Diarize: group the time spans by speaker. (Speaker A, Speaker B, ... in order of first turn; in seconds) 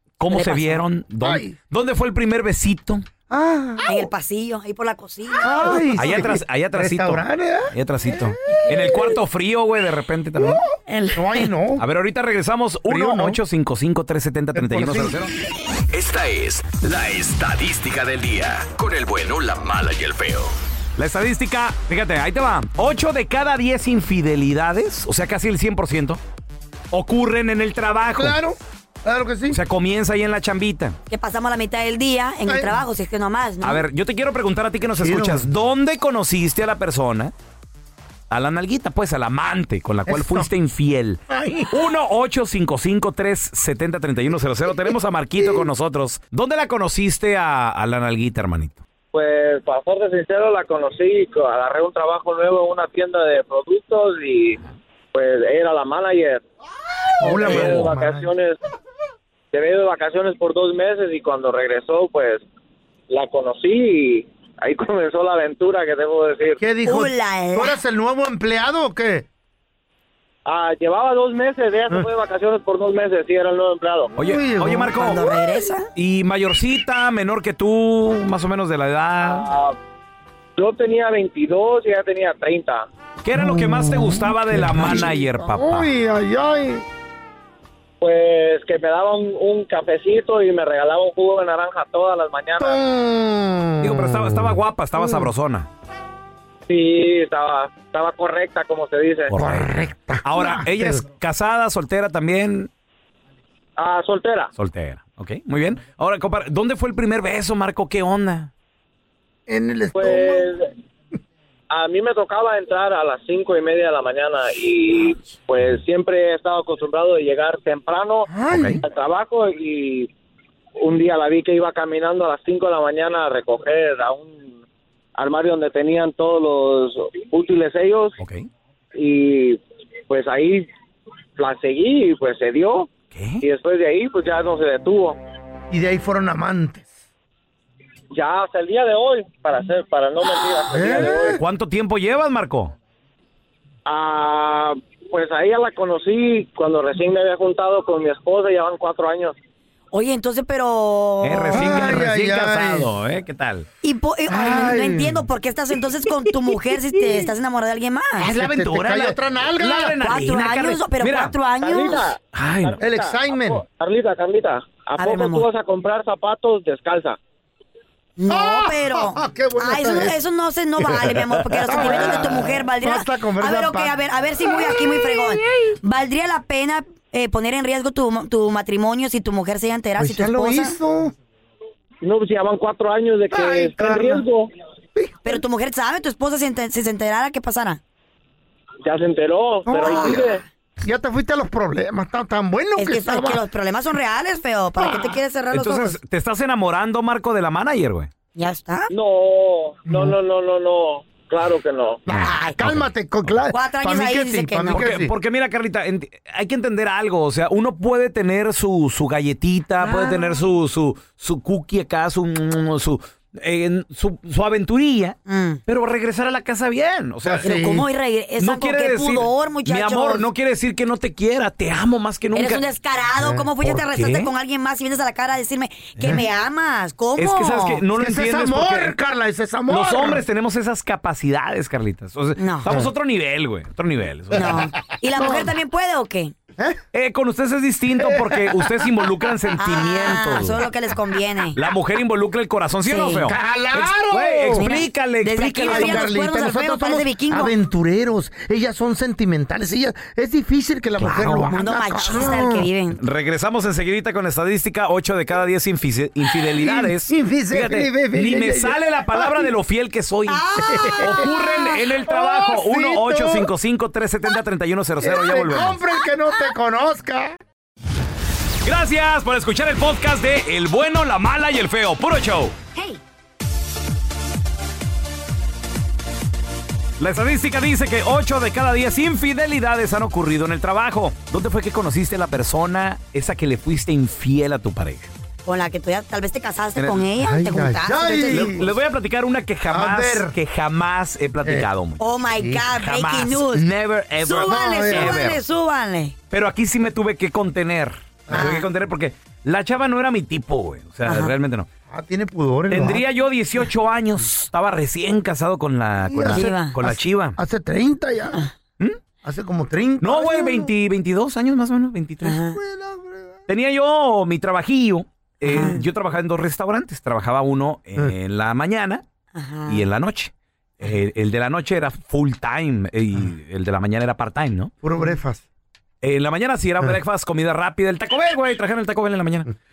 Speaker A: 0.2-3.0, 5.9-10.6, 11.8-15.3, 21.0-26.2, 26.9-28.4, 29.5-31.0, 33.6-37.3, 38.3-48.8, 57.3-57.9, 74.2-75.2, 75.9-79.5, 83.2-85.9, 93.8-95.7, 99.3-102.7, 104.5-108.5, 118.5-118.8, 128.2-128.5, 133.1-133.4, 141.3-142.7, 151.2-153.7, 158.2-161.3, 162.3-162.8, 171.6-172.3, 195.5-198.1, 202.1-203.3, 204.7-217.8, 218.4-222.6, 223.6-224.3, 227.2-228.9, 229.7-234.6, 236.9-240.6, 241.5-246.1, 251.0-251.4, 253.0-260.4, 260.9-265.8, 268.6-272.5, 277.0-285.1, 286.8-287.0, 288.3-292.1, 292.7-295.4, 296.3-301.7, 302.7-307.4, 310.0-312.4, 313.5-319.0, 319.7-324.7, 326.0-329.5
Speaker B: 0.3-0.8, 3.8-6.0, 10.9-11.5, 31.1-33.8, 66.8-67.7, 74.9-75.9, 149.9-152.0, 153.8-158.3, 160.0-162.1, 165.0-165.4, 168.2-180.7, 185.2-187.8, 189.8-190.4, 192.8-195.9, 198.3-198.9, 202.3-202.6, 203.5-204.8, 215.3-215.6, 217.4-220.3, 222.3-227.8, 232.4-232.8, 234.3-236.3, 239.6-241.6, 242.8-243.3, 244.6-247.5, 251.3-253.0, 260.3-261.8, 272.7-273.0, 285.4-288.6, 292.0-293.7, 294.2-296.1, 298.3-298.6, 301.1-301.3, 306.3-306.8, 312.2-312.6, 315.4-315.8, 319.3-319.8
Speaker C: 1.2-1.6, 3.3-4.1, 5.4-9.1, 10.4-11.8, 12.9-13.4, 14.5-15.2, 28.1-29.6, 32.5-32.8, 35.0-35.5, 40.1-40.5, 41.3-41.7, 45.4-45.7, 57.2-58.3, 66.6-69.2, 74.2-75.7, 83.3-86.8, 92.6-95.3, 99.3-101.0, 109.5-110.5, 118.3-118.8, 135.7-136.9, 140.7-141.4, 151.5-152.9, 154.3-155.3, 156.9-157.3, 158.3-160.0, 162.8-163.6, 168.3-170.2, 171.6-174.0, 174.7-175.2, 180.0-181.1, 183.3-184.2, 184.9-185.4, 189.6-190.3, 190.8-193.4, 194.8-195.2, 199.8-200.2, 202.1-205.1, 217.2-217.8, 223.2-223.5, 227.9-230.2, 235.1-235.5, 237.9-239.1, 243.2-244.7, 245.7-252.7, 256.6-259.5, 260.6-261.3, 262.0-263.5, 265.0-267.4, 287.2-288.6, 289.6-290.4, 292.4-292.7, 294.4-295.2, 298.3-298.5, 301.9-303.0, 306.1-308.4, 309.2-310.7, 312.5-313.4, 324.8-325.4
Speaker D: 15.9-20.5
Speaker E: 49.1-54.6, 55.1-56.4, 57.2-58.6, 59.5-62.4, 63.1-66.6, 70.5-74.1, 79.2-79.7, 80.6-82.9, 88.0-92.8, 96.7-99.3, 103.8-104.5, 109.9-110.6, 111.7-118.3, 118.8-120.1, 120.8-124.6, 125.2-128.2, 128.9-130.7, 131.4-132.9, 133.4-135.2, 138.1-141.4, 143.8-149.3, 161.6-167.2, 182.0-184.5, 188.8-190.4, 198.9-202.0